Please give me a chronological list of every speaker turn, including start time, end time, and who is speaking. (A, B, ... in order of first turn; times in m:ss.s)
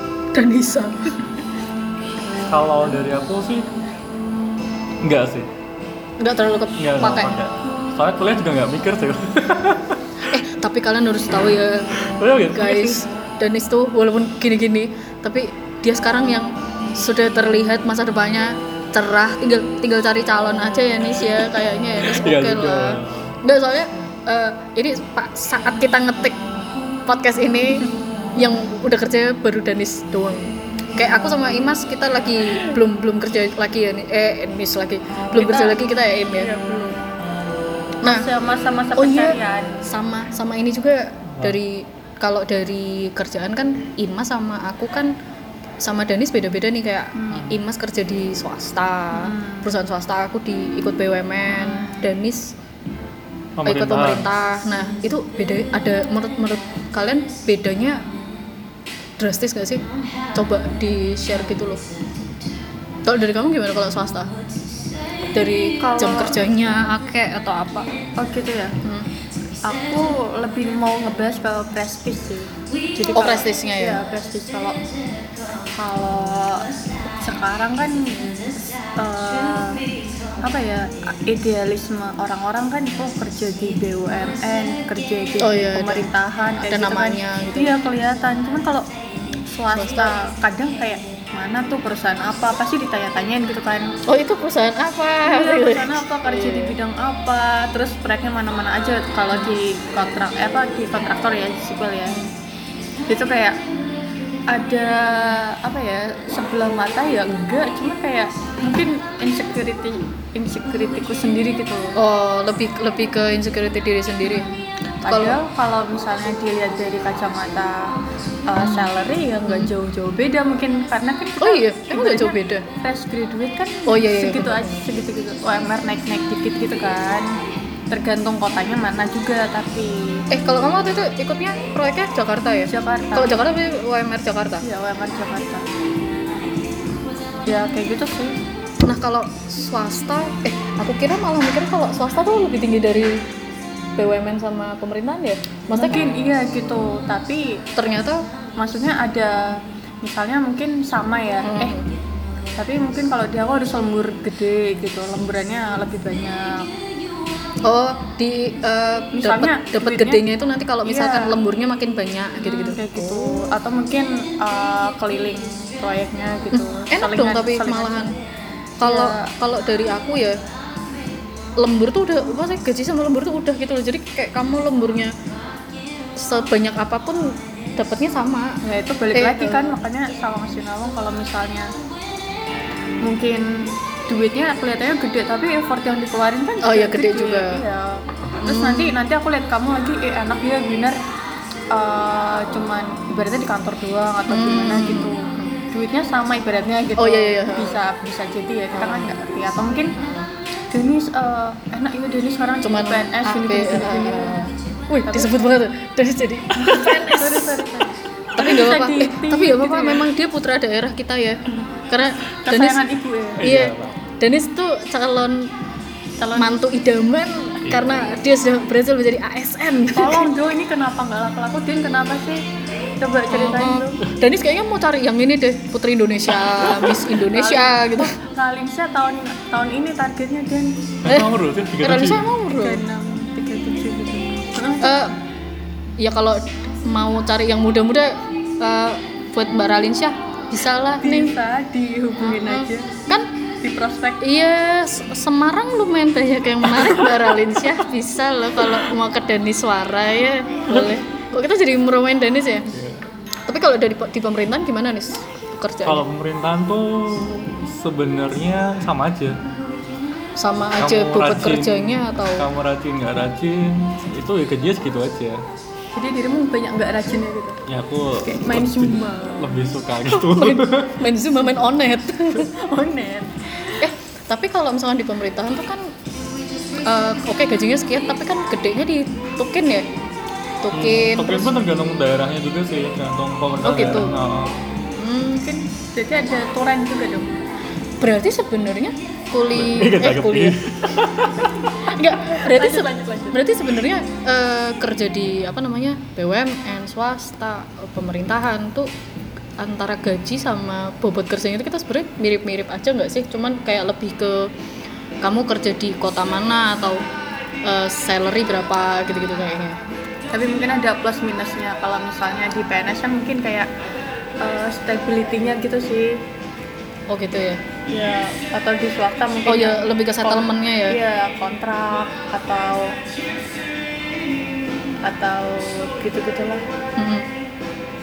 0:00.3-0:01.2 A
0:02.3-0:03.7 B
0:05.0-0:05.5 B
0:06.2-0:07.4 A
0:06.8-0:10.3 B
0:10.3-0:26.4 A
0:12.1-0:13.1 B
0:22.0-0:23.4 B
0:27.1-0:36.5 A
0:35.3-0:37.0 C
0:38.0-0:39.8 C
0:39.0-0:45.2 A
0:45.8-0:52.5 A
0:47.2-0:47.4 C
0:47.3-0:47.6 B
0:49.1-0:49.7 C
0:51.5-0:52.1 C
0:53.6-0:54.3 B
0:53.6-0:58.0 A
0:59.2-1:01.8 A
1:03.0-1:04.3 A
1:05.3-1:07.9 A
1:05.8-1:06.4 C
1:08.2-1:08.8 C
1:08.8-1:09.1 A
1:09.6-1:14.8 C
1:13.1-1:14.0 A
1:15.7-1:19.9 C
1:20.4-1:28.9 C
1:25.4-1:26.1 A
1:26.6-1:27.8 A
1:29.4-1:34.0 C
1:29.8-1:30.1 A
1:34.1-1:36.8 A
1:35.2-1:42.2 C
1:43.1-1:43.6 C
1:44.5-1:52.0 C
1:52.0-1:54.5 A
1:55.0-1:58.0 C
1:55.1-1:55.4 A
1:58.5-2:07.4 C
1:58.6-1:58.9 A
2:01.4-2:02.6 A
2:03.9-2:04.8 A
2:07.9-2:10.3 C
2:10.3-2:14.6 A
2:12.7-2:13.4 C
2:14.6-2:15.7 C
2:17.5-2:18.4 C
2:18.8-2:23.2 A
2:24.0-2:26.0 A
2:25.7-2:27.7 C
2:27.8-2:28.3 A
2:28.6-2:31.8 C
2:31.4-2:31.9 A
2:32.6-2:36.7 C
2:37.6-2:43.4 A
2:39.1-2:40.2 C
2:40.8-2:41.4 C
2:42.4-2:48.1 C
2:46.5-2:48.1 A
2:48.8-2:50.4 A
2:48.8-2:49.3 C
2:51.6-2:55.1 A
2:56.2-2:58.6 A
2:58.6-3:01.7 C
2:59.1-2:59.8 A
3:03.0-3:11.0 C
3:06.6-3:07.6 A
3:08.4-3:09.0 A
3:11.7-3:20.0 C
3:14.3-3:15.5 A
3:17.0-3:17.8 A
3:18.8-3:19.1 A
3:20.0-3:20.3 A
3:20.7-3:24.4 C
3:22.6-3:27.6 A
3:25.1-3:25.3 C
3:26.6-3:30.1 C
3:28.4-3:32.9 A
3:32.5-3:33.5 C
3:33.4-3:34.0 B
3:33.4-3:35.5 A
3:36.2-3:36.6 C
3:36.4-3:40.3 A
3:37.6-3:38.2 B
3:39.9-3:42.4 C
3:43.0-3:44.0 C
3:43.3-3:48.2 A
3:47.3-3:50.8 C
3:51.0-3:52.3 B
3:51.8-3:52.8 A
3:52.5-3:54.9 C
3:54.8-3:55.1 A
3:56.0-4:01.3 A
4:01.0-4:02.9 C
4:02.2-4:03.3 A
4:03.6-4:04.3 C
4:04.2-4:12.7 A
4:12.7-4:13.0 B
4:13.5-4:16.0 A
4:15.8-4:19.4 B
4:20.4-4:22.5 A
4:20.8-4:25.4 B
4:25.9-4:27.6 C
4:27.7-4:31.0 B
4:28.2-4:29.6 C
4:30.3-4:32.5 A
4:32.4-4:33.8 C
4:33.8-4:35.9 A
4:36.8-4:39.9 A
4:40.6-4:41.5 A
4:40.7-4:44.7 B
4:43.6-4:44.1 A
4:45.0-4:45.5 A
4:45.4-4:47.4 C
4:48.0-4:50.6 A
4:49.5-4:51.5 B
4:51.9-4:58.9 A
4:52.3-4:53.4 C
4:59.6-5:04.5 A
5:05.2-5:07.0 A
5:07.6-5:09.8 A
5:10.3-5:13.7 C
5:14.4-5:16.2 C
5:17.1-5:17.6 A
5:17.9-5:23.0 C
5:19.5-5:21.0 A
5:25.0-5:26.6 C
5:27.0-5:27.3 A